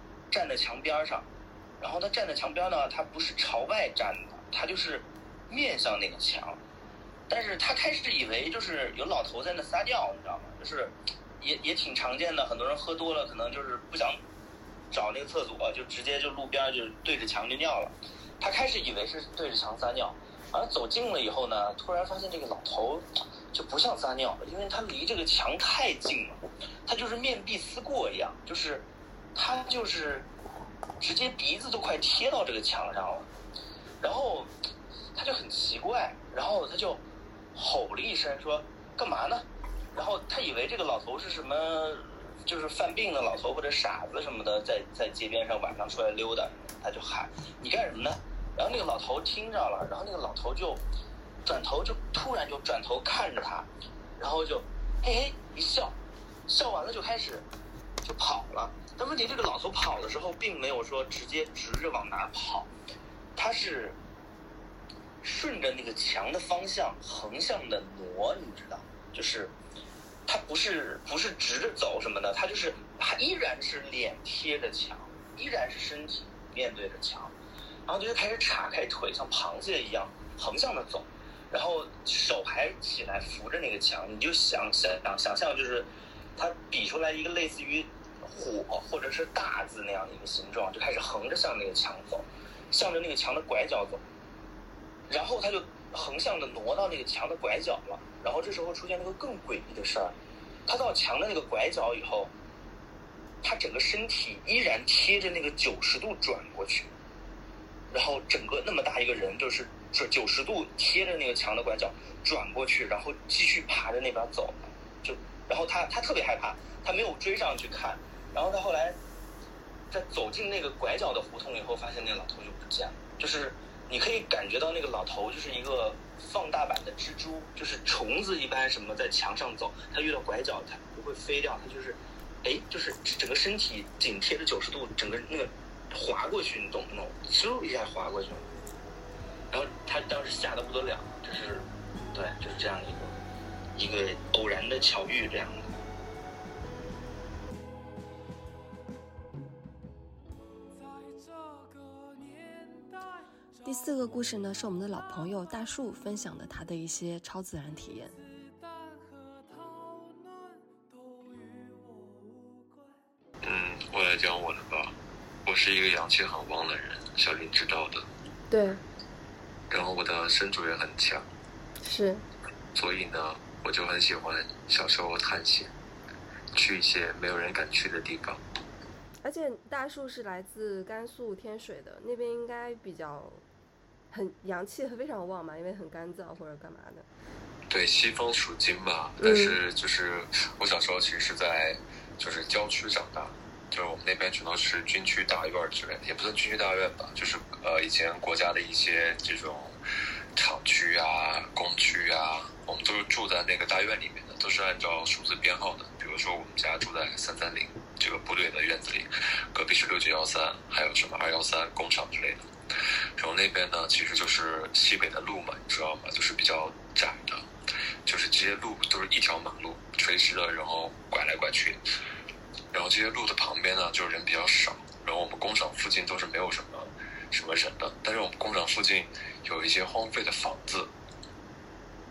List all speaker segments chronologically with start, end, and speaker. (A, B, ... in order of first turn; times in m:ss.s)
0:00.3-0:01.3 A
0:01.8-0:06.6 A
0:07.3-0:14.2 A
0:14.9-0:30.3 A
0:31.0-0:33.3 A
0:34.0-0:34.5 A
0:35.2-0:37.0 A
0:37.5-0:50.8 A
0:51.4-0:57.5 A
0:58.0-1:02.7 A
1:03.4-1:04.0 A
1:05.2-1:09.6 A
1:10.3-1:17.3 A
1:17.9-1:34.0 A
1:35.1-1:40.2 A
1:40.7-1:42.3 A
1:43.4-1:46.9 A
1:47.9-1:59.0 A
1:59.9-2:18.5 A
2:19.5-2:23.2 A
2:23.8-2:25.7 A
2:33.6-2:38.2 B
2:43.4-2:48.1 C
2:48.5-2:48.8 B
2:49.7-2:51.3 C
2:51.8-2:52.2 B
2:52.8-2:55.7 C
2:56.5-2:58.4 C
2:59.2-3:03.4 B
3:04.1-3:07.1 B
3:07.7-3:19.8 C
3:09.2-3:09.6 B
3:20.4-3:32.5 C
3:33.2-3:37.5 C
3:38.1-3:41.8 C
3:42.7-3:50.9 C